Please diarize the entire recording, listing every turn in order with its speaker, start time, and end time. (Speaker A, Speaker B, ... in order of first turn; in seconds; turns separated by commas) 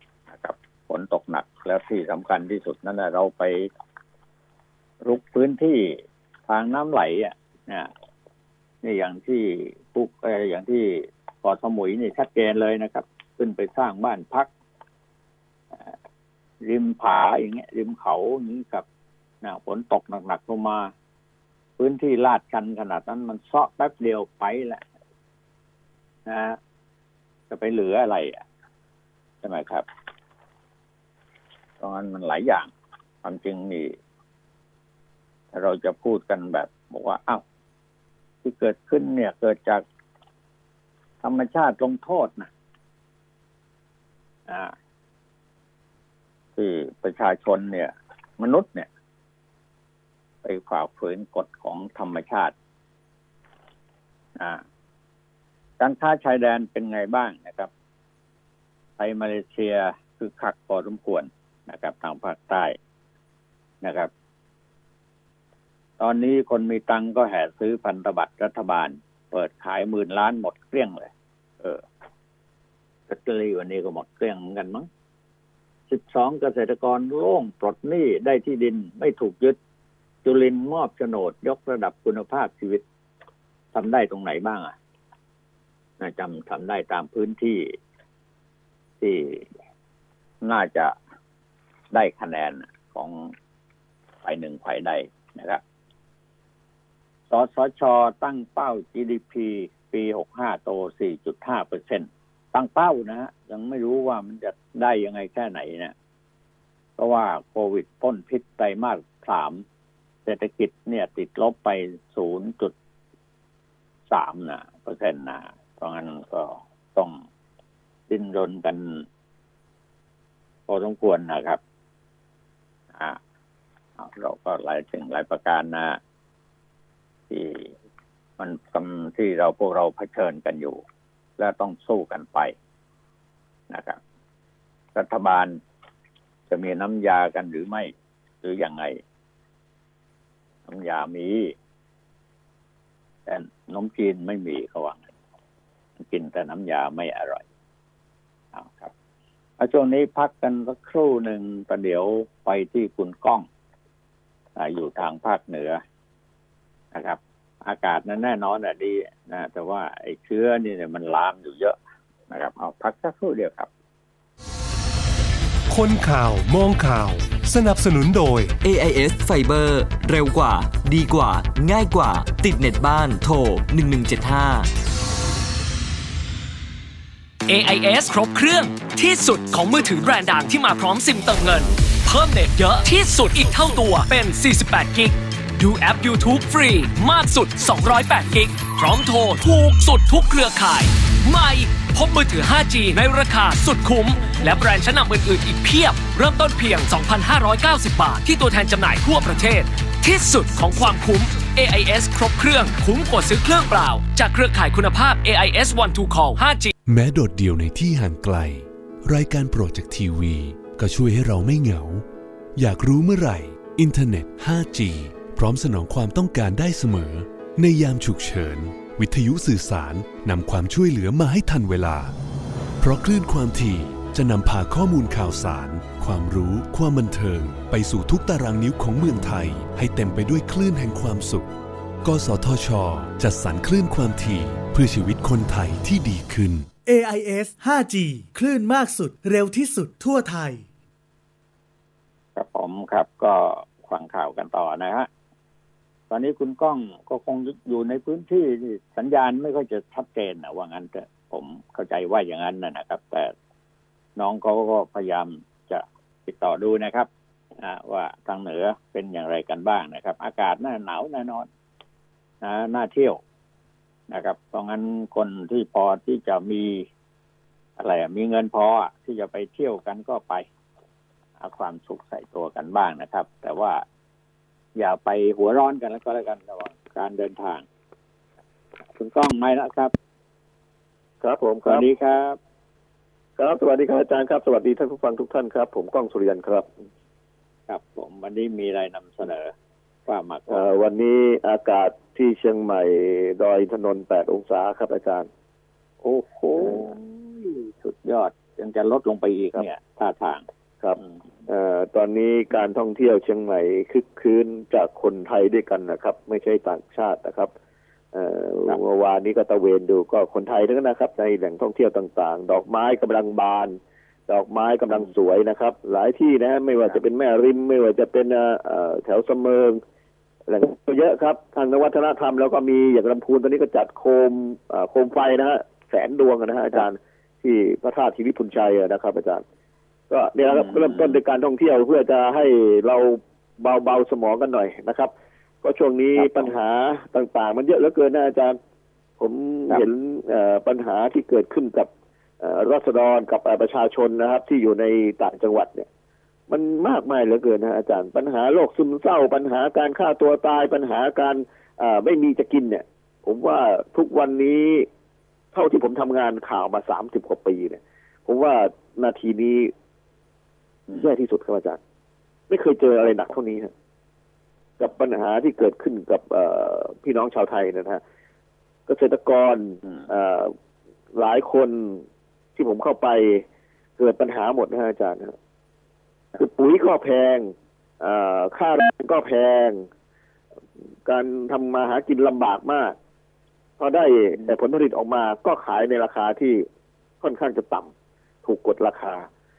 Speaker A: 0.3-3.7, Speaker A: 5.0-7.9, Speaker A: 8.8-14.5, Speaker A: 16.6-18.9, Speaker A: 19.4-20.9, Speaker A: 21.8-24.8, Speaker A: 26.3-26.6, Speaker A: 27.5-28.4, Speaker A: 29.4-29.9, Speaker A: 31.8-32.7, Speaker A: 33.2-34.0, Speaker A: 35.5-37.4, Speaker A: 38.4-39.8, Speaker A: 41.2-42.5, Speaker A: 44.5-44.7, Speaker A: 46.6-48.9, Speaker A: 50.4-52.5, Speaker A: 55.8-57.7, Speaker A: 59.0-62.8, Speaker A: 63.8-64.1, Speaker A: 66.0-71.8, Speaker A: 73.1-74.9, Speaker A: 75.9-79.6, Speaker A: 80.2-82.8, Speaker A: 83.7-84.8, Speaker A: 86.0-87.8, Speaker A: 89.0-89.5, Speaker A: 90.4-91.0, Speaker A: 91.9-93.3, Speaker A: 94.2-95.6, Speaker A: 97.3-105.9, Speaker A: 107.0-109.6, Speaker A: 110.3-112.7, Speaker A: 114.1-117.2, Speaker A: 118.1-119.1, Speaker A: 120.7-121.6, Speaker A: 124.0-126.0, Speaker A: 127.3-127.7, Speaker A: 128.4-130.8, Speaker A: 131.4-132.6, Speaker A: 133.7-134.0, Speaker A: 134.9-135.6, Speaker A: 136.5-139.0, Speaker A: 140.7-141.5, Speaker A: 143.3-145.1, Speaker A: 146.0-147.4, Speaker A: 148.5-148.9, Speaker A: 149.6-153.5, Speaker A: 154.6-155.8, Speaker A: 156.9-161.8, Speaker A: 162.3-163.7, Speaker B: 165.7-168.5, Speaker C: 168.6-174.7, Speaker D: 177.5-206.7, Speaker B: 206.8-222.2, Speaker B: 222.8-231.5, Speaker B: 232.0-236.7, Speaker E: 236.8-240.6, Speaker A: 242.4-245.1, Speaker A: 246.1-253.3, Speaker A: 254.2-261.5, Speaker A: 262.4-263.2, Speaker A: 264.1-266.9, Speaker A: 267.8-270.5, Speaker A: 271.4-273.8, Speaker A: 274.8-277.6, Speaker A: 279.0-279.9, Speaker F: 281.2-281.9, Speaker A: 281.6-282.4, Speaker F: 283.4-286.7, Speaker A: 287.7-289.5, Speaker A: 290.1-290.7, Speaker F: 290.5-295.3, Speaker A: 296.0-300.4, Speaker F: 300.8-307.5, Speaker F: 308.1-319.8, Speaker F: 320.5-329.4, Speaker F: 330.1-335.1, Speaker A: 330.5-331.2, Speaker F: 335.6-338.6, Speaker A: 336.2-336.5, Speaker F: 339.2-341.9, Speaker F: 342.4-345.9, Speaker F: 346.5-354.9, Speaker F: 355.5-359.7, Speaker F: 360.9-361.8, Speaker F: 362.5-363.7, Speaker F: 364.8-368.0, Speaker F: 368.9-370.5, Speaker F: 371.1-372.0, Speaker F: 372.6-373.4, Speaker F: 374.0-375.4, Speaker F: 376.4-379.9, Speaker F: 381.1-383.0, Speaker F: 383.8-386.7, Speaker F: 387.2-387.9, Speaker F: 388.4-389.3